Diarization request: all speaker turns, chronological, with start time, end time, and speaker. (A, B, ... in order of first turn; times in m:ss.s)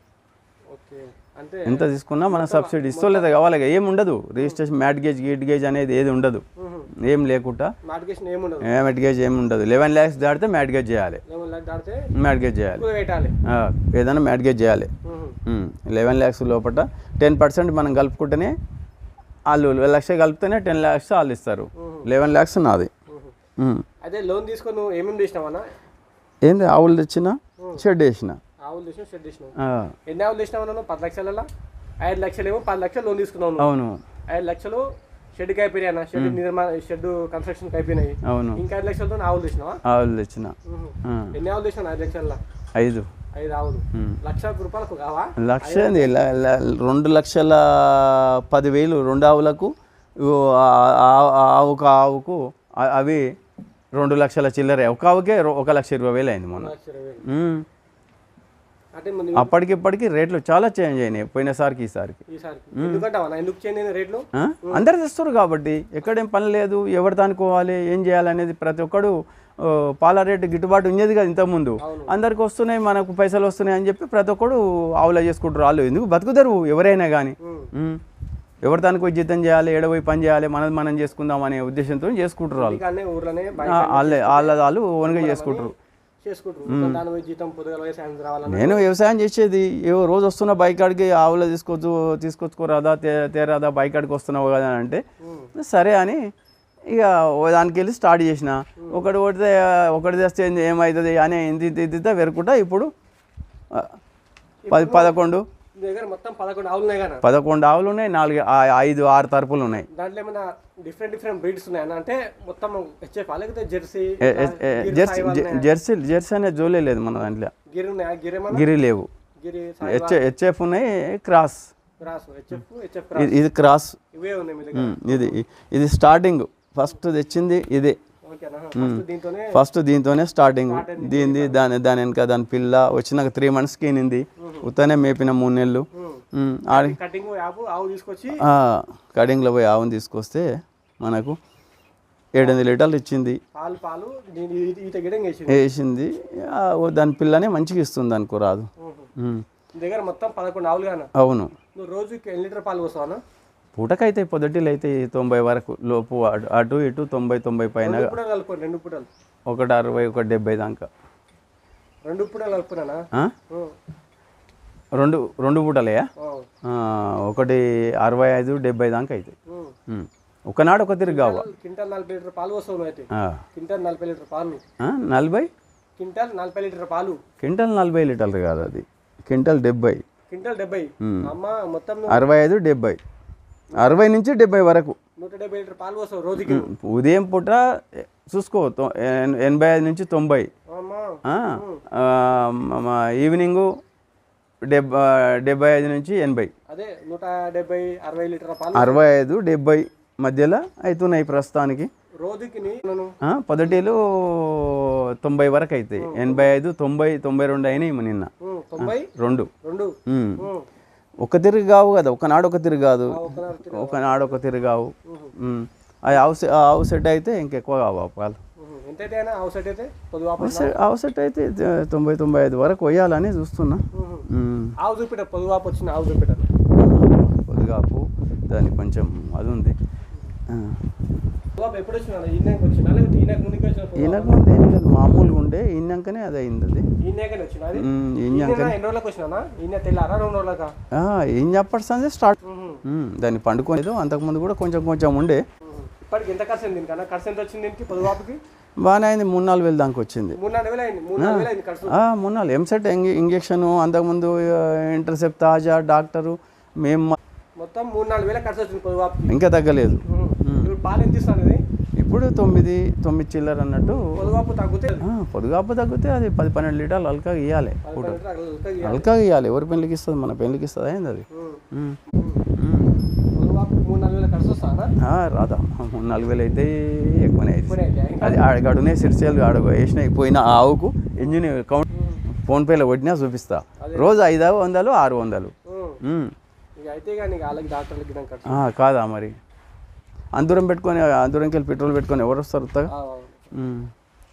0:00.7-0:03.3 A
0:01.7-0:06.4 B
0:06.6-0:06.9 A
0:07.0-0:07.7 B
0:07.8-0:08.8 A
0:08.6-0:11.2 B
0:11.3-0:12.0 A
0:12.2-0:12.8 B
0:12.8-0:13.3 A
0:13.5-0:14.9 B
0:15.0-0:15.4 A
0:15.5-0:18.6 B
0:19.5-0:22.9 B
0:21.8-0:22.1 A
0:23.1-0:23.3 A
0:23.6-0:23.8 B
0:24.0-0:25.6 A
0:26.4-0:28.4 B
0:28.7-0:29.5 A
0:29.6-0:29.9 B
0:30.1-0:31.5 A
0:32.0-0:33.7 A
0:33.6-0:34.0 B
0:34.3-0:34.8 A
0:35.4-0:39.8 A
0:36.2-0:36.4 B
0:38.3-0:38.6 B
0:39.9-0:41.3 B
0:40.6-0:42.4 A
0:42.8-0:43.1 B
0:43.4-0:46.3 A
0:45.4-0:53.2 B
0:54.0-0:56.7 B
0:56.6-0:57.2 A
0:57.3-0:57.6 B
0:59.0-0:59.5 A
0:59.4-1:02.2 B
1:02.3-1:04.9 A
1:02.8-1:03.1 B
1:04.4-1:18.0 B
1:11.8-1:12.1 A
1:17.4-1:17.7 A
1:18.6-1:22.8 B
1:22.6-1:25.7 A
1:23.6-1:25.7 B
1:26.2-1:28.8 A
1:26.7-1:27.0 B
1:28.5-1:35.0 B
1:35.2-1:35.5 A
1:35.6-1:36.2 B
1:36.9-1:42.9 B
1:44.7-1:45.2 A
1:44.7-1:45.4 B
1:45.8-1:47.2 A
1:47.2-1:49.9 B
1:49.9-1:55.7 A
1:54.2-1:57.5 B
1:57.7-1:58.7 A
1:58.5-1:59.1 B
1:59.4-2:00.2 A
1:59.8-2:01.7 B
2:02.0-2:03.4 A
2:03.2-2:04.0 B
2:04.1-2:05.4 A
2:04.7-2:08.0 B
2:08.3-2:09.6 A
2:08.8-2:17.0 B
2:10.6-2:11.6 A
2:14.4-2:14.7 A
2:15.9-2:18.4 A
2:18.4-2:20.5 B
2:21.0-2:21.4 B
2:22.4-2:23.4 B
2:23.5-2:25.6 A
2:25.5-2:29.4 B
2:28.8-2:29.1 A
2:29.8-2:31.1 A
2:31.2-2:31.5 B
2:31.8-2:33.2 A
2:33.8-2:38.1 B
2:37.8-2:39.1 A
2:39.5-2:40.9 B
2:42.1-2:43.7 A
2:45.0-2:46.1 B
2:46.2-2:46.5 A
2:46.6-2:49.3 B
2:49.5-2:49.8 A
2:49.9-2:51.5 B
2:51.0-2:54.6 A
2:53.2-2:53.4 B
2:54.8-2:55.5 B
2:56.0-2:57.2 A
2:57.4-3:00.0 B
3:00.3-3:02.2 A
3:01.0-3:01.3 B
3:02.1-3:03.0 B
3:03.8-3:05.0 B
3:05.2-3:06.7 A
3:06.4-3:07.6 B
3:08.3-3:10.5 B
3:10.7-3:11.8 A
3:11.3-3:13.7 B
3:14.7-3:16.5 B
3:16.7-3:19.0 A
3:18.8-3:21.9 B
3:22.2-3:23.1 A
3:23.3-3:29.5 B
3:26.0-3:26.5 A
3:28.4-3:29.1 A
3:29.6-3:30.7 A
3:30.1-3:30.5 B
3:31.2-3:38.4 B
3:33.1-3:34.4 A
3:35.0-3:35.4 A
3:38.6-3:40.7 A
3:40.4-3:44.7 B
3:43.9-3:44.3 A
3:44.8-3:46.5 A
3:46.8-3:49.8 B
3:50.5-3:50.8 B
3:51.6-3:54.6 A
3:54.0-3:56.9 B
3:57.0-4:00.7 A
3:57.8-3:58.8 B
4:00.9-4:05.4 B
4:02.4-4:02.8 A
4:05.7-4:08.4 A
4:08.8-4:10.4 B
4:10.4-4:12.0 A
4:11.2-4:17.2 B
4:17.6-4:19.3 A
4:19.3-4:20.7 B
4:20.1-4:21.6 A
4:22.0-4:24.3 B
4:23.8-4:25.1 A
4:25.0-4:28.2 B
4:27.8-4:29.1 A
4:28.8-4:32.0 B
4:31.3-4:32.4 A
4:32.6-4:33.0 B
4:33.4-4:34.9 A
4:35.0-4:45.5 B
4:37.7-4:38.4 A
4:41.9-4:42.2 A
4:43.8-4:44.2 A
4:45.7-4:46.0 A
4:46.0-4:46.3 B
4:46.8-4:48.6 A
4:48.5-4:49.4 B
4:50.4-4:52.9 B
4:52.9-4:53.5 A
4:53.6-4:53.9 B